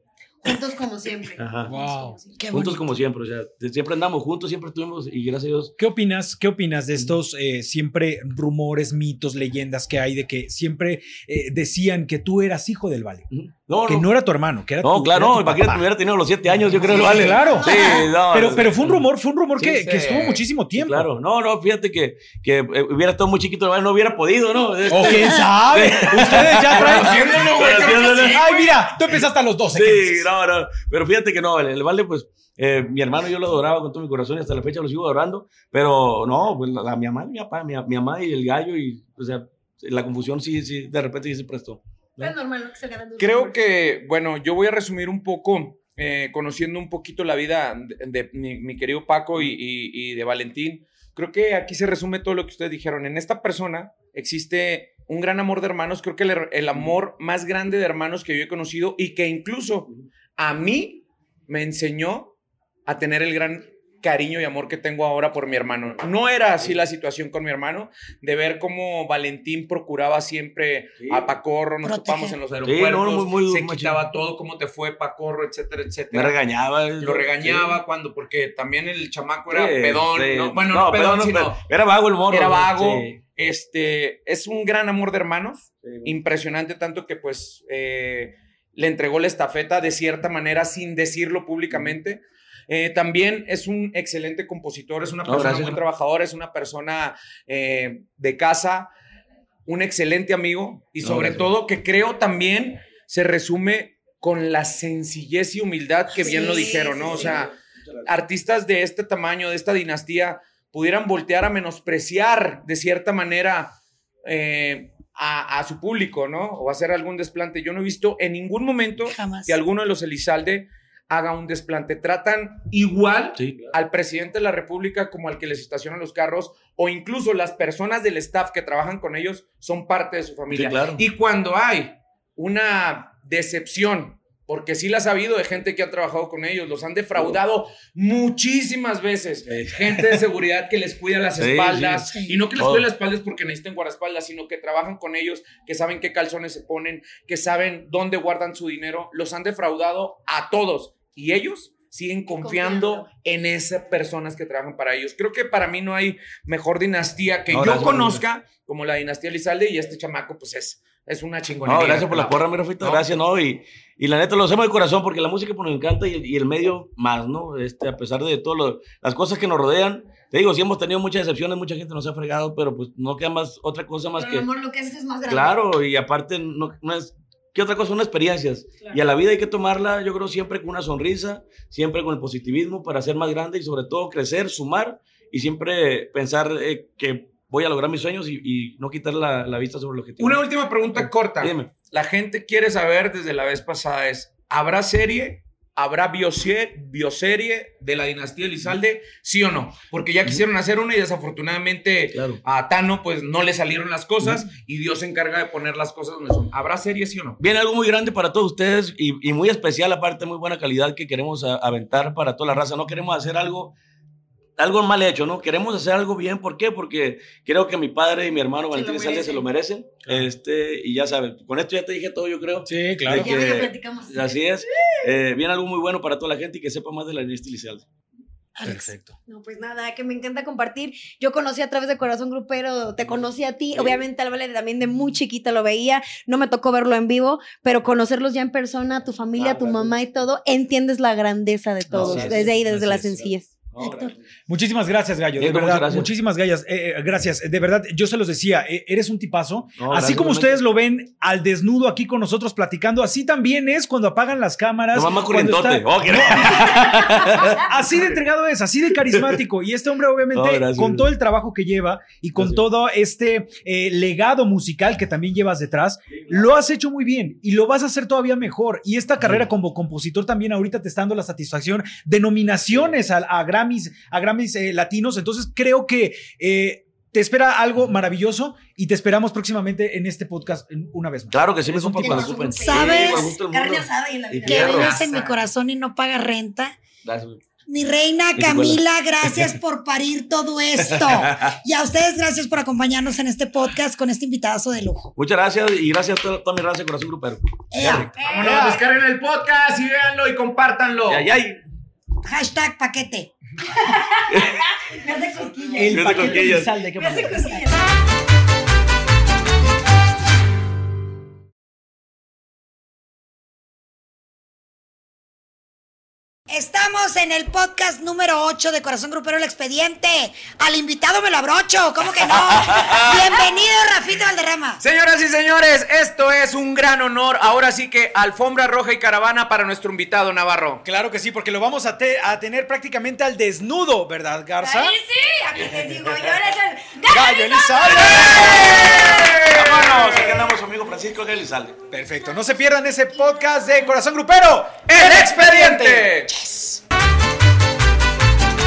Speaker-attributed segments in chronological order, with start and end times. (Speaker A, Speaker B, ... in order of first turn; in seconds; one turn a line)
Speaker A: 0.4-2.4
Speaker B: 1.4-1.8
Speaker C: 1.7-2.2
Speaker D: 2.4-2.8
Speaker B: 2.5-5.8
Speaker C: 5.8-13.3
Speaker B: 13.3-14.1
Speaker C: 13.8-15.9
Speaker B: 14.8-19.1
Speaker C: 16.5-21.1
Speaker E: 17.0-17.4
Speaker A: 17.6-18.0
Speaker E: 19.6-20.4
Speaker B: 20.7-28.5
Speaker C: 24.9-30.3
Speaker E: 26.6-28.4
Speaker A: 27.7-28.8
Speaker B: 29.7-42.4
Speaker A: 42.2-43.6
Speaker E: 43.2-62.4
Speaker E: 62.9-76.4
Speaker B: 71.0-71.3
Speaker D: 71.8-72.4
Speaker B: 72.6-74.0
Speaker B: 76.1-77.8
Speaker E: 77.0-81.6
Speaker B: 79.5-83.2
Speaker E: 82.3-98.9
Speaker B: 85.8-86.2
Speaker B: 95.2-95.8
Speaker E: 99.7-163.1
Speaker B: 101.0-101.5
Speaker A: 106.2-107.3
Speaker B: 107.0-107.5
Speaker D: 119.0-119.6
Speaker B: 123.4-123.8
Speaker B: 130.5-131.0
Speaker B: 139.5-140.2
Speaker B: 141.4-142.9
Speaker A: 152.4-153.1
Speaker B: 157.5-158.2
Speaker B: 161.7-174.5
Speaker A: 174.2-175.6
Speaker B: 175.3-190.4
Speaker E: 190.2-207.4
Speaker B: 191.0-191.7
Speaker B: 202.1-202.4
Speaker B: 207.4-213.7
Speaker B: 214.6-227.9
Speaker A: 218.7-219.5
Speaker C: 222.7-223.4
Speaker A: 223.1-225.0
Speaker D: 228.6-228.9
Speaker C: 228.6-229.2
Speaker A: 229.3-243.5
Speaker B: 233.7-234.0
Speaker B: 239.4-240.0
Speaker B: 241.9-242.6
Speaker C: 241.9-243.3
Speaker B: 243.7-244.2
Speaker D: 243.8-244.1
Speaker C: 244.5-282.5
Speaker B: 245.4-246.1
Speaker B: 249.8-250.7
Speaker B: 254.9-257.6
Speaker B: 259.1-259.4
Speaker B: 260.3-261.1
Speaker B: 262.4-262.7
Speaker B: 269.2-269.5
Speaker B: 281.3-284.9
Speaker A: 282.0-285.4
Speaker D: 282.6-283.3
Speaker D: 284.4-286.8
Speaker B: 287.0-287.4
Speaker D: 287.7-295.1
Speaker B: 288.4-289.6
Speaker B: 290.8-291.6
Speaker B: 295.2-298.1
Speaker D: 297.7-298.1
Speaker A: 298.2-298.7
Speaker E: 298.2-301.3
Speaker C: 298.4-298.8
Speaker B: 301.1-301.6
Speaker D: 302.2-303.3
Speaker A: 303.8-307.9
Speaker B: 304.3-304.6
Speaker C: 305.8-307.6
Speaker B: 305.9-306.7
Speaker D: 316.5-324.8
Speaker E: 322.6-323.3
Speaker E: 324.8-330.8
Speaker C: 330.8-335.0
Speaker A: 334.6-339.4
Speaker B: 335.6-336.4
Speaker C: 337.1-339.3
Speaker B: 337.9-341.8
Speaker E: 338.3-340.4
Speaker C: 341.9-346.8
Speaker E: 344.9-346.3